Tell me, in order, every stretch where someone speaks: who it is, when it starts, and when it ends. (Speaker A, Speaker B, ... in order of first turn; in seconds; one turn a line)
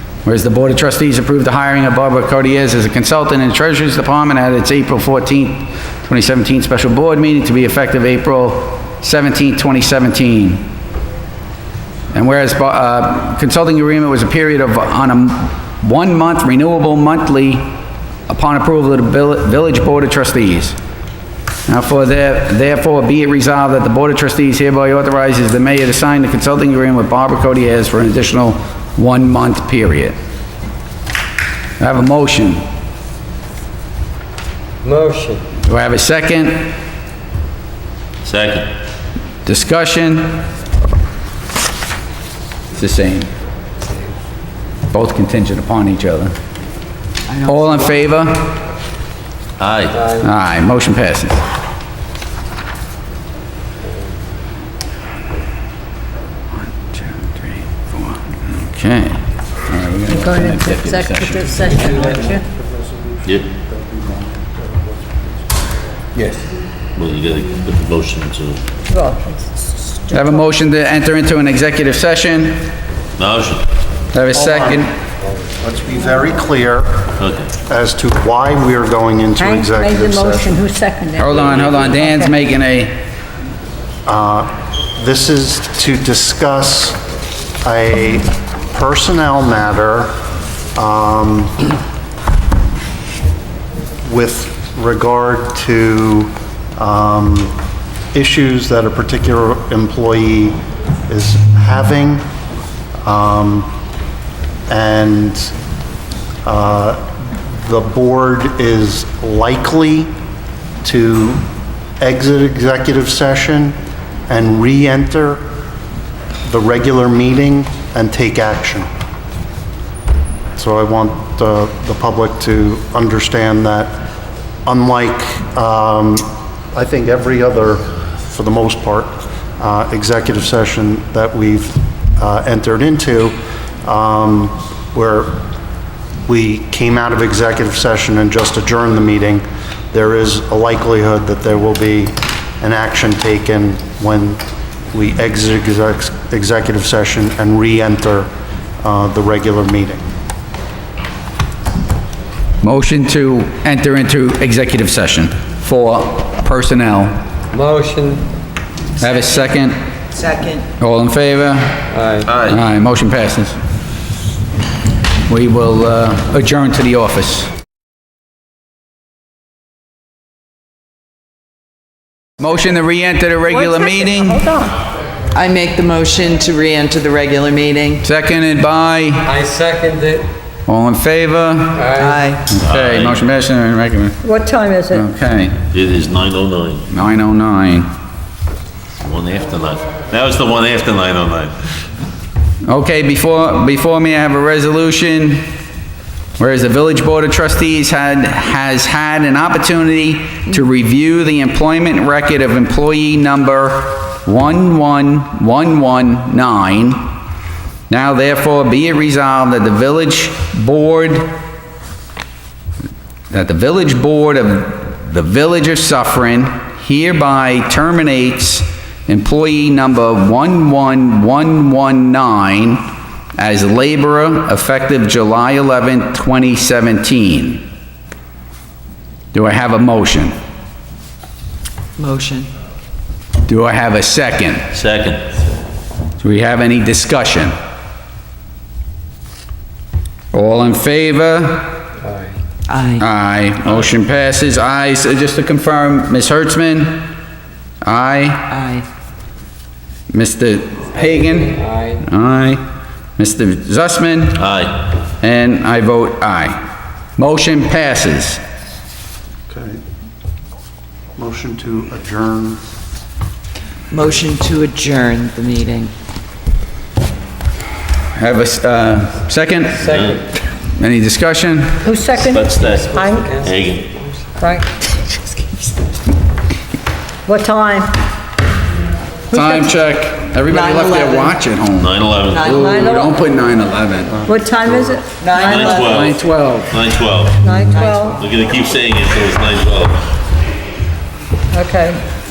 Speaker A: 0.2-10.7
Speaker A: 12.1-17.7
Speaker A: 18.3-20.8
Speaker A: 21.7-30.2
Speaker A: 31.8-32.6
Speaker B: 34.8-35.4
Speaker A: 35.7-36.7
Speaker C: 38.2-38.7
Speaker A: 39.5-40.4
Speaker A: 42.8-43.3
Speaker A: 44.9-46.3
Speaker A: 47.5-48.5
Speaker C: 49.6-50.1
Speaker A: 50.2-51.4
Speaker A: 56.6-62.0
Speaker D: 60.1-62.5
Speaker E: 62.1-65.4
Speaker C: 67.0-68.6
Speaker D: 68.9-70.3
Speaker A: 70.1-72.6
Speaker C: 73.2-73.7
Speaker A: 74.1-74.9
Speaker E: 74.3-74.9
Speaker E: 75.6-77.1
Speaker C: 77.2-77.5
Speaker E: 77.7-80.6
Speaker D: 79.4-81.4
Speaker A: 81.2-83.0
Speaker C: 81.3-82.0
Speaker D: 82.0-82.3
Speaker E: 84.1-87.0
Speaker E: 87.6-90.2
Speaker E: 90.8-91.7
Speaker E: 94.0-97.5
Speaker E: 98.1-102.2
Speaker E: 103.0-103.7
Speaker E: 104.7-105.5
Speaker E: 106.5-110.1
Speaker E: 110.8-111.4
Speaker E: 112.0-113.8
Speaker E: 114.3-115.4
Speaker E: 116.5-118.9
Speaker E: 120.6-124.0
Speaker E: 124.7-135.4
Speaker E: 136.3-148.3
Speaker E: 148.8-150.0
Speaker A: 152.6-157.2
Speaker B: 157.5-158.3
Speaker A: 159.0-159.8
Speaker F: 160.2-160.7
Speaker A: 160.8-161.8
Speaker B: 161.9-162.3
Speaker C: 162.3-162.6
Speaker A: 162.5-163.6
Speaker A: 165.3-167.5
Speaker A: 172.4-174.4
Speaker D: 173.5-174.8
Speaker F: 175.3-178.0
Speaker A: 178.0-179.3
Speaker B: 179.3-180.3
Speaker A: 180.7-181.9
Speaker B: 181.8-182.2
Speaker F: 182.0-182.4
Speaker C: 182.4-183.2
Speaker A: 182.5-184.2
Speaker D: 184.2-185.1
Speaker A: 184.9-185.6
Speaker C: 185.7-186.9
Speaker A: 186.9-187.9
Speaker C: 189.0-191.6
Speaker A: 192.7-195.5
Speaker A: 196.4-207.1
Speaker A: 207.9-211.3
Speaker A: 213.3-227.7
Speaker A: 229.3-230.3
Speaker F: 232.0-232.5
Speaker A: 233.5-234.7
Speaker C: 234.7-235.3
Speaker A: 236.2-237.5
Speaker A: 240.3-241.9
Speaker B: 242.0-242.3
Speaker F: 242.7-243.0
Speaker A: 243.0-247.1
Speaker A: 247.8-248.6
Speaker F: 248.5-248.8
Speaker A: 250.1-252.6
Speaker B: 251.0-252.0
Speaker A: 253.2-254.4
Speaker C: 254.4-254.8
Speaker A: 255.2-256.6
Speaker A: 257.2-258.4
Speaker E: 259.5-259.8
Speaker E: 261.2-262.6
Speaker F: 263.9-265.9
Speaker A: 268.2-269.9
Speaker B: 269.8-270.2
Speaker C: 269.9-270.2
Speaker A: 270.8-271.8
Speaker D: 271.8-273.4
Speaker C: 272.1-273.9
Speaker B: 273.2-273.5
Speaker D: 274.4-275.5
Speaker D: 277.3-278.0
Speaker A: 279.3-284.3
Speaker D: 279.3-279.7
Speaker F: 280.5-281.3
Speaker C: 281.8-282.9
Speaker D: 282.5-283.2
Speaker D: 284.2-286.0
Speaker C: 285.1-290.0
Speaker F: 285.2-285.8
Speaker A: 285.8-286.7
Speaker D: 287.4-288.2
Speaker D: 291.5-292.0